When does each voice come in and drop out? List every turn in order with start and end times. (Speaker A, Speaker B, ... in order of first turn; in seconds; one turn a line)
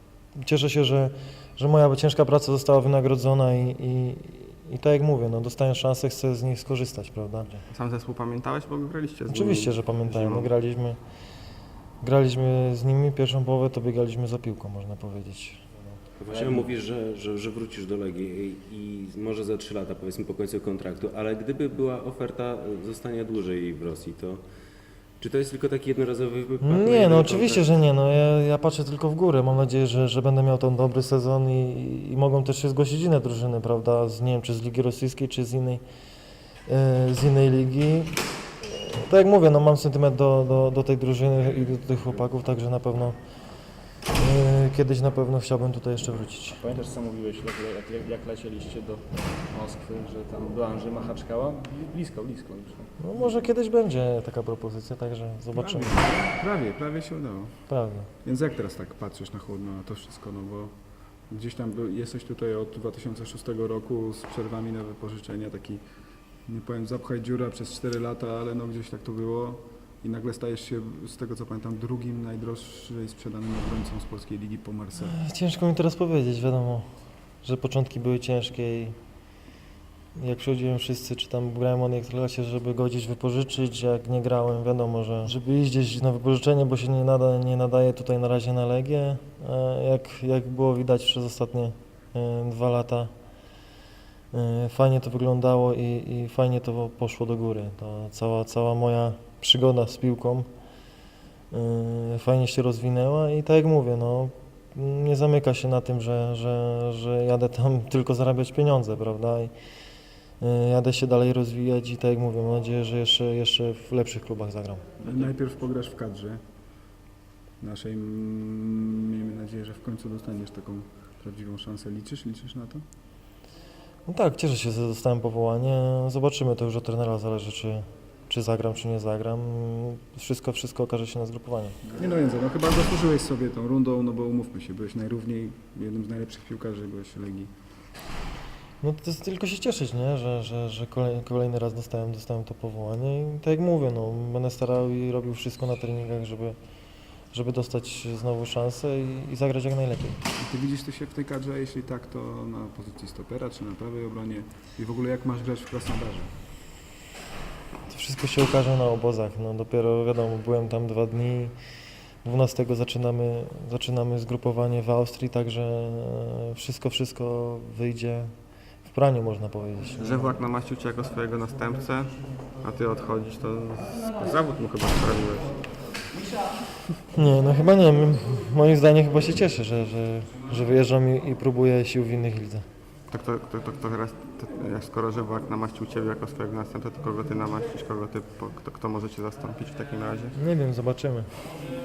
Speaker A: 0.3-7.6
Speaker B: 7.7-10.5
Speaker A: 9.3-11.0
Speaker A: 12.0-15.6
Speaker C: 16.2-24.4
Speaker D: 16.3-16.7
Speaker C: 25.2-27.7
Speaker A: 26.6-35.8
Speaker A: 36.7-43.1
Speaker A: 44.1-46.7
Speaker D: 46.6-53.3
Speaker A: 53.0-56.1
Speaker E: 55.5-60.7
Speaker A: 57.7-58.1
Speaker E: 61.3-65.8
Speaker E: 66.5-75.2
Speaker A: 75.0-76.9
Speaker A: 77.4-79.0
Speaker A: 80.1-93.1
Speaker A: 94.3-100.5
Speaker A: 101.5-109.5
Speaker A: 110.4-114.8
Speaker D: 115.0-115.3
Speaker E: 115.0-116.4
Speaker E: 117.6-122.8
Speaker A: 124.0-131.8
Speaker E: 131.9-137.5
Speaker A: 138.8-146.6
Speaker A: 147.3-150.2
Speaker E: 150.4-156.3
Speaker A: 157.9-161.5
Speaker A: 162.2-168.3
Speaker A: 168.8-170.3
Speaker B: 170.0-175.6
Speaker A: 177.1-182.7
Speaker B: 183.1-190.3
Speaker A: 190.3-191.3